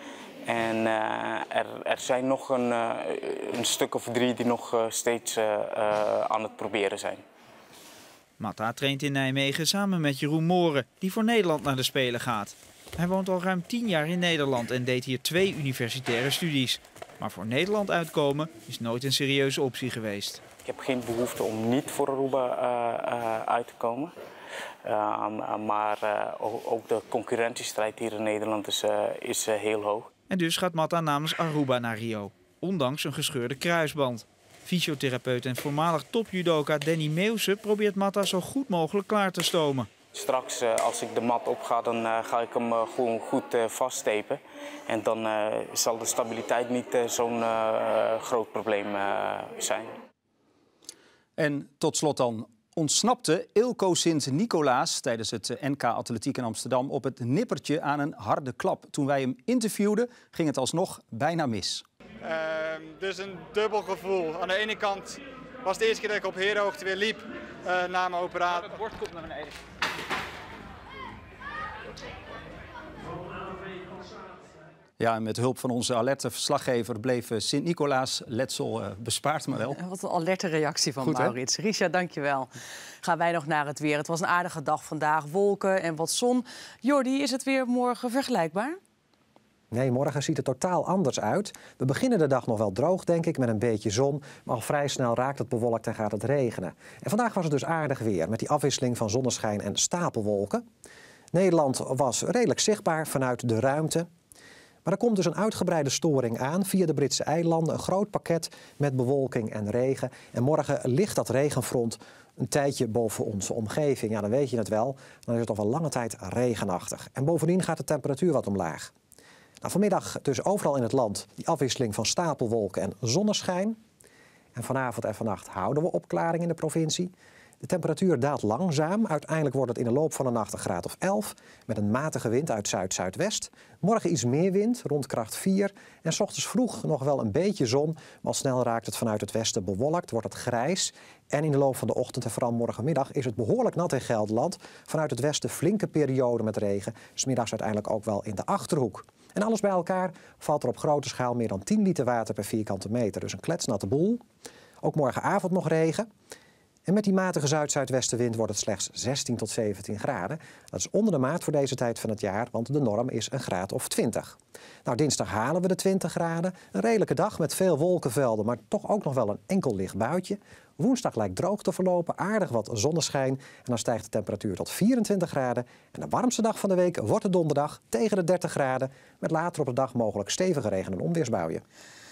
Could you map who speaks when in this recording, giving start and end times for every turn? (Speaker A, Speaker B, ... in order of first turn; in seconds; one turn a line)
Speaker A: 0.5-7.2
Speaker B: 8.4-20.4
Speaker A: 20.7-24.1
Speaker A: 24.9-30.1
Speaker B: 30.3-39.9
Speaker A: 40.1-49.9
Speaker C: 51.6-52.4
Speaker C: 52.9-55.3
Speaker C: 55.9-61.8
Speaker D: 62.2-68.7
Speaker C: 75.0-79.7
Speaker E: 79.5-82.5
Speaker E: 83.0-88.8
Speaker F: 89.7-100.6
Speaker F: 101.3-104.1
Speaker F: 104.8-118.9
Speaker F: 119.6-123.8
Speaker F: 124.5-154.2
Speaker F: 154.8-156.1
Speaker F: 156.9-181.6